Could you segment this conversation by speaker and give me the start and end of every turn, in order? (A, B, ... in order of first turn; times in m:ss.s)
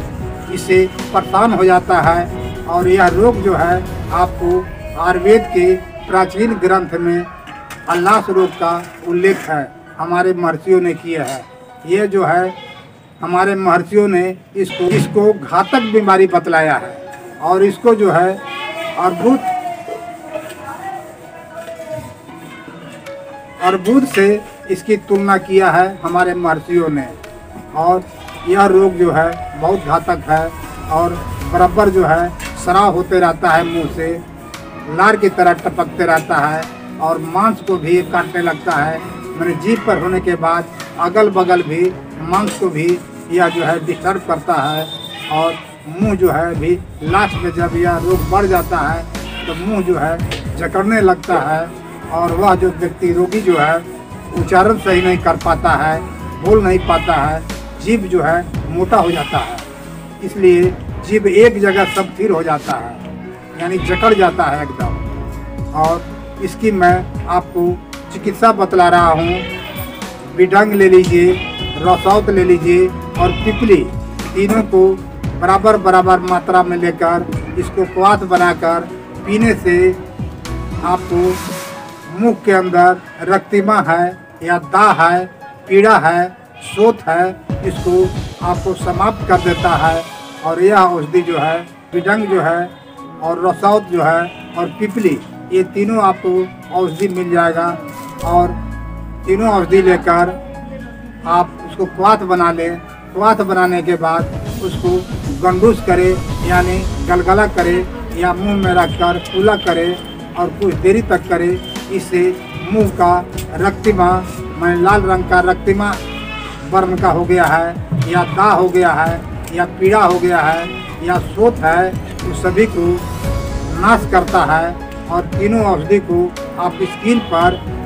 0:00.5-0:07.3 A
0:07.9-0:12.6 A
0:13.2-0:18.4 A
0:19.0-0:19.5 A
0:23.6-0:27.2 A
0:27.7-0:34.2 A
0:34.9-0:59.7 A
1:00.2-1:03.0 A
1:03.5-1:05.1 A
1:05.7-1:09.5 A
1:10.3-1:20.0 A
1:20.8-1:21.4 A
1:22.1-1:38.6 A
1:39.2-1:40.4 A
1:41.2-1:56.0 A
1:56.6-2:03.0 A
2:03.7-2:07.6 A